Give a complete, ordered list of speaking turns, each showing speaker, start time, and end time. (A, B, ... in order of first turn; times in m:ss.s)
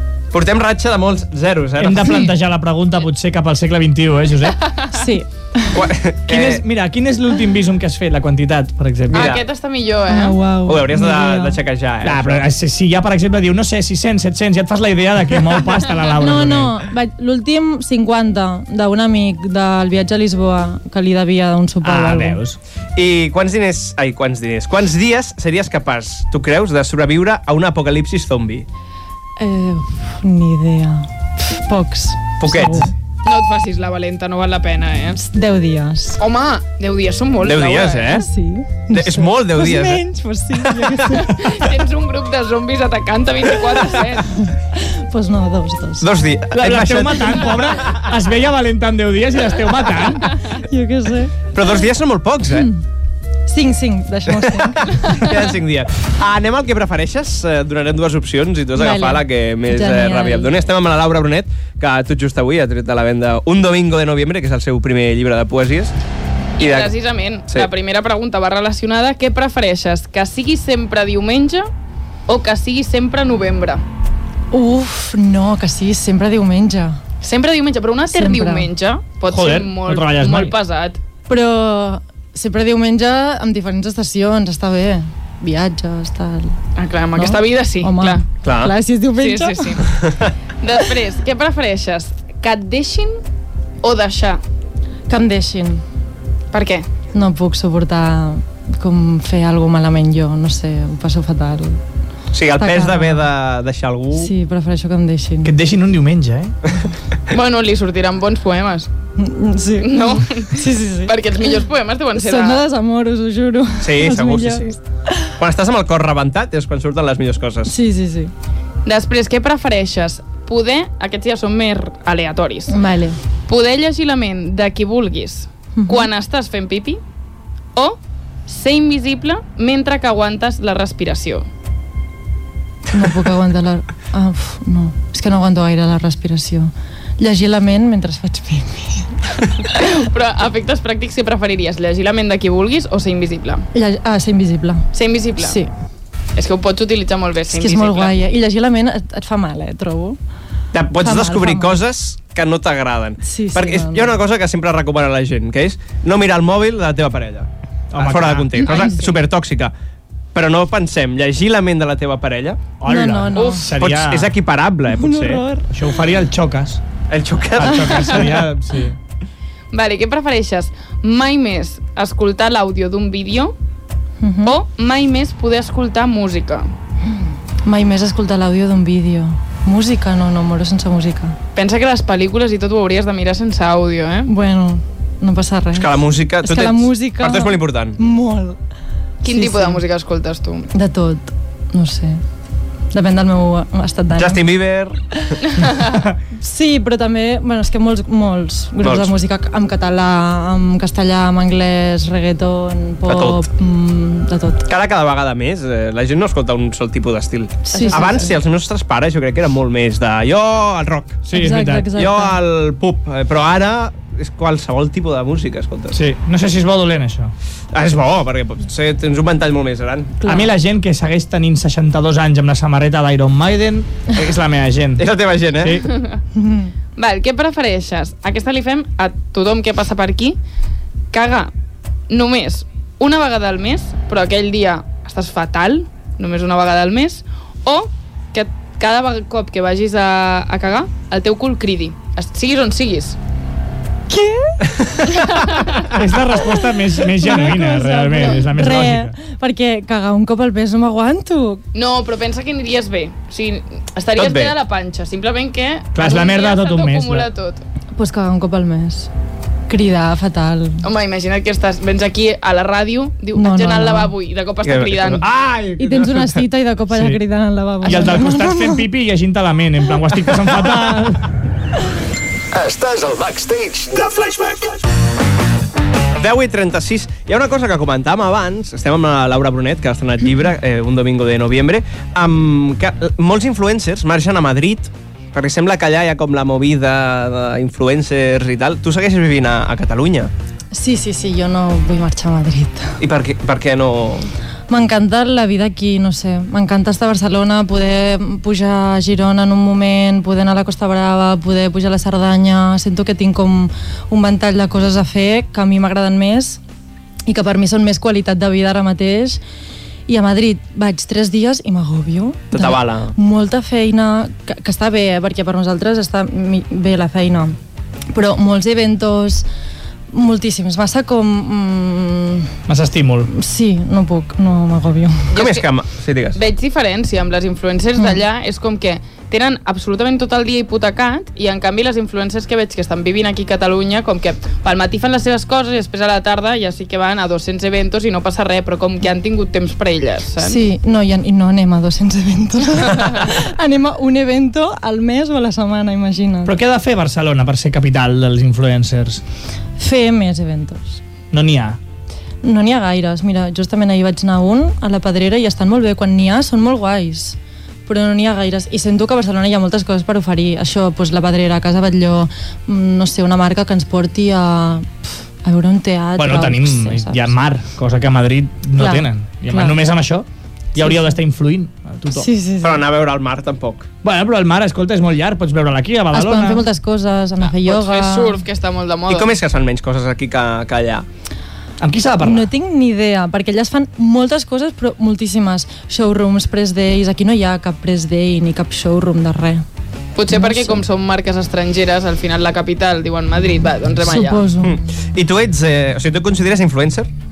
0:00.3-0:02.3 A
0:01.8-0:04.6 B
0:04.9-0:05.8 C
0:05.7-0:06.6 A
0:06.3-0:09.4 B
0:09.1-0:09.4 A
0:09.1-0:10.4 D
0:10.1-0:11.6 C
0:10.7-0:12.5 A
0:12.0-0:16.7 B
0:16.2-0:22.4 C
0:21.8-0:22.6 B
0:23.0-0:28.7 A
0:29.4-0:32.9 C
0:32.4-0:32.9 A
0:33.2-0:35.2 D
0:35.2-0:36.2 C
0:36.2-0:38.2 D
0:37.4-0:38.3 A
0:38.1-0:41.4 C
0:38.9-0:40.0 A
0:40.7-0:41.1 A
0:41.1-0:44.4 D
0:44.4-0:46.1 C
0:46.0-0:48.0 A
0:46.5-0:50.4 B
0:50.5-0:51.4 C
0:51.5-0:52.7 A
0:52.5-0:52.8 C
0:53.5-0:55.3 C
0:54.4-1:06.0 A
0:58.8-1:00.6 C
1:06.6-1:11.7 D
1:06.6-1:06.9 A
1:12.3-1:13.8 D
1:14.5-1:17.0 C
1:17.2-1:21.0 D
1:18.1-1:18.7 C
1:19.3-1:20.5 B
1:21.3-1:26.6 C
1:26.8-1:28.2 D
1:27.2-1:29.8 C
1:28.4-1:28.7 A
1:29.2-1:30.0 D
1:29.9-1:30.3 A
1:30.6-1:33.2 D
1:33.8-1:34.4 D
1:35.1-1:35.8 C
1:36.5-1:36.9 D
1:37.1-1:41.8 C
1:42.3-1:44.3 A
1:42.6-1:43.3 C
1:44.1-1:45.5 C
1:45.4-1:46.6 B
1:47.3-1:48.9 D
1:49.2-1:51.5 C
1:49.8-1:52.6 D
1:52.2-1:55.3 C
1:53.8-1:54.8 A
1:55.4-1:57.8 A
1:57.7-1:58.3 C
1:58.9-2:02.8 D
2:02.7-2:03.2 C
2:03.5-2:07.0 D
2:05.8-2:06.1 C
2:07.8-2:11.5 D
2:12.9-2:19.5 C
2:19.6-2:23.7 D
2:23.7-2:25.7 C
2:24.9-2:25.6 D
2:26.4-2:28.2 D
2:27.5-2:30.2 C
2:30.7-2:39.7 A
2:31.0-2:31.8 C
2:33.2-2:34.2 C
2:37.9-2:38.7 B
2:38.6-2:39.0 C
2:40.3-2:42.7 A
2:42.8-2:44.3 B
2:42.8-2:43.7 C
2:43.4-2:43.7 D
2:43.8-2:45.4 A
2:44.9-2:45.7 C
2:45.7-2:46.8 B
2:47.1-2:48.6 A
2:47.6-2:49.0 B
2:49.7-2:53.6 D
2:54.2-2:54.6 C
2:54.4-2:56.7 D
2:57.6-3:01.4 C
3:01.6-3:04.3 D
3:04.3-3:08.6 C
3:05.7-3:08.0 A
3:09.2-3:10.7 D
3:09.3-3:09.8 C
3:10.7-3:12.2 C
3:12.9-3:14.5 C
3:14.2-3:15.3 A
3:15.6-3:16.0 D
3:16.3-3:24.7 C
3:18.8-3:19.2 A
3:23.1-3:23.4 A
3:24.7-3:31.3 A
3:27.7-3:28.4 C
3:31.3-3:31.9 B
3:31.3-3:32.4 C
3:31.9-3:36.0 A
3:35.9-3:37.3 B
3:37.7-3:40.2 A
3:40.2-3:40.5 C
3:40.2-3:45.9 B
3:45.0-3:45.8 A
3:45.9-3:46.2 D
3:46.4-3:46.7 C
3:47.0-3:50.4 D
3:51.1-3:51.5 D
3:52.1-4:03.2 D
4:04.1-4:05.4 C
4:05.1-4:05.9 D
4:05.9-4:09.1 B
4:06.4-4:11.6 C
4:11.7-4:17.6 D
4:14.2-4:14.5 A
4:16.0-4:17.3 B
4:18.0-4:19.1 C
4:19.7-4:20.8 C
4:20.8-4:25.2 D
4:23.4-4:24.1 C
4:24.6-4:26.4 A
4:25.8-4:28.9 C
4:26.9-4:27.2 B
4:27.8-4:31.3 B
4:32.5-4:34.8 E
4:36.2-4:50.3 A
4:50.7-4:53.0 C
4:53.0-4:54.3 A
4:54.7-5:06.6 C
5:07.3-5:09.4 C
5:10.1-5:17.6 C
5:12.5-5:13.1 A
5:18.1-5:19.5 C
5:20.1-5:22.6 C
5:22.7-5:23.3 B
5:23.3-5:25.3 C
5:25.3-5:25.7 D
5:25.3-5:26.4 A
5:26.4-5:40.6 D
5:40.4-5:46.6 C
5:46.5-5:49.2 B
5:49.8-5:51.0 C
5:51.3-5:51.8 B
5:52.4-6:07.4 C
6:06.2-6:12.3 B
6:08.8-6:09.8 C
6:10.8-6:11.2 C
6:12.1-6:12.8 C
6:12.6-6:13.9 A
6:14.0-6:16.6 B
6:16.1-6:18.4 C
6:17.4-6:19.3 D
6:19.1-6:21.1 A
6:21.8-6:22.5 B
6:22.2-6:29.6 C
6:30.2-6:34.4 D
6:30.3-6:30.8 C
6:34.0-6:34.8 C
6:34.6-6:37.1 A